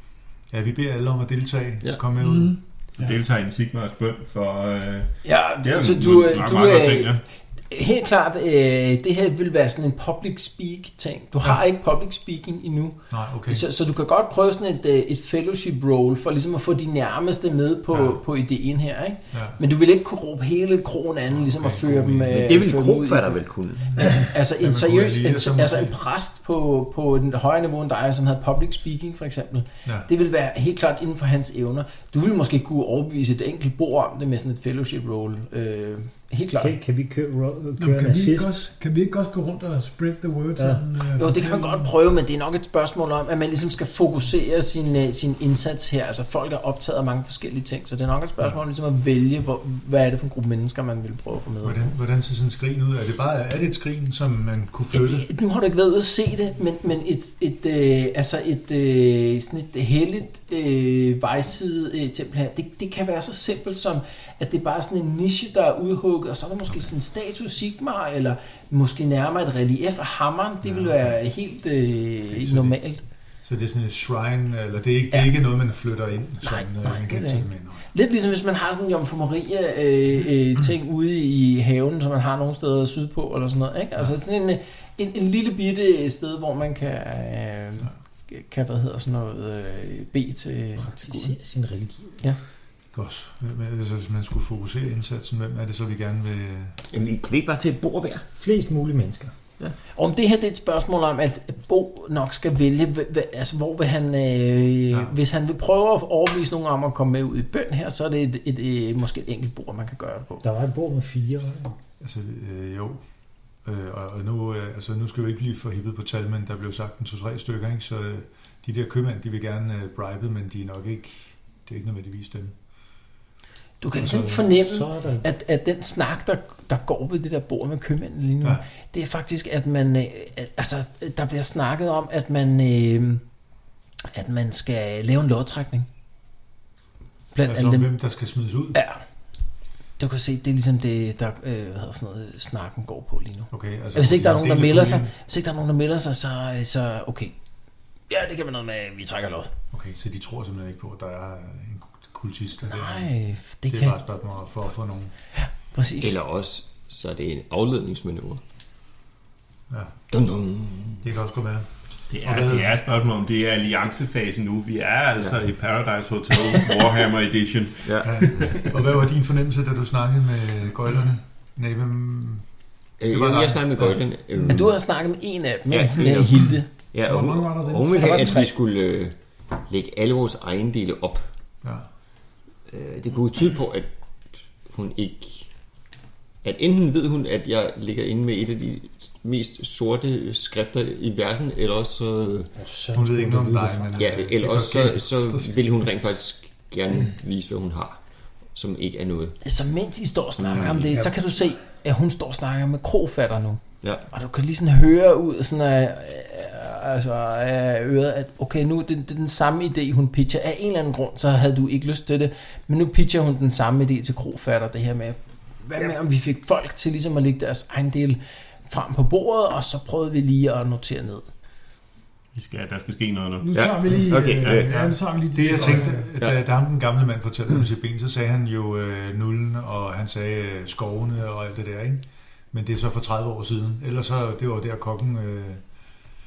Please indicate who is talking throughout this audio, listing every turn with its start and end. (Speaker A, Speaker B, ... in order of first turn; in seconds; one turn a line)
Speaker A: 0.5-2.5
Speaker B: 2.2-3.1
Speaker C: 3.0-7.2
Speaker D: 5.2-23.4
Speaker A: 13.1-13.6
Speaker A: 17.9-18.2
Speaker A: 19.3-19.6
Speaker A: 21.3-22.5
Speaker E: 22.3-24.1
Speaker D: 24.0-36.7
Speaker A: 24.0-25.9
Speaker F: 36.6-38.6
Speaker B: 37.8-41.9
Speaker D: 41.2-51.9
Speaker A: 51.6-55.3
Speaker D: 54.9-73.0
Speaker A: 70.6-71.2
Speaker A: 72.3-72.8
Speaker A: 73.4-77.8
Speaker D: 76.4-91.3
Speaker F: 90.8-92.2
Speaker A: 92.9-96.8
Speaker E: 96.9-98.2
Speaker F: 98.4-99.3
Speaker D: 99.9-110.4
Speaker F: 110.4-111.8
Speaker A: 112.0-113.0
Speaker A: 113.6-122.5
Speaker D: 123.8-133.2
Speaker A: 124.0-124.5
Speaker F: 124.2-125.2
Speaker D: 134.1-135.9
Speaker D: 137.3-137.9
Speaker A: 137.4-138.8
Speaker D: 138.7-139.0
Speaker D: 140.0-147.3
Speaker A: 143.5-145.1
Speaker D: 148.1-149.5
Speaker A: 149.7-153.1
Speaker D: 152.6-154.0
Speaker A: 153.7-155.1
Speaker D: 155.4-156.1
Speaker E: 156.0-158.4
Speaker A: 159.7-159.9
Speaker E: 160.1-161.0
Speaker A: 161.0-161.7
Speaker C: 162.1-168.6
Speaker A: 162.2-162.7
Speaker E: 167.8-168.6
Speaker A: 168.0-172.4
Speaker E: 173.0-174.7
Speaker A: 173.1-174.0
Speaker D: 174.4-176.7
Speaker E: 175.7-179.1
Speaker B: 177.0-178.4
Speaker D: 177.9-178.5
Speaker E: 179.7-181.3
Speaker E: 182.7-183.9
Speaker E: 184.7-185.5
Speaker E: 186.4-192.5
Speaker F: 192.6-194.2
Speaker A: 192.9-195.6
Speaker E: 194.0-198.0
Speaker E: 198.5-199.4
Speaker D: 199.4-221.3
Speaker E: 200.5-200.9
Speaker C: 222.3-223.6
Speaker B: 223.4-226.1
Speaker E: 223.5-224.7
Speaker C: 224.2-224.6
Speaker A: 224.7-235.6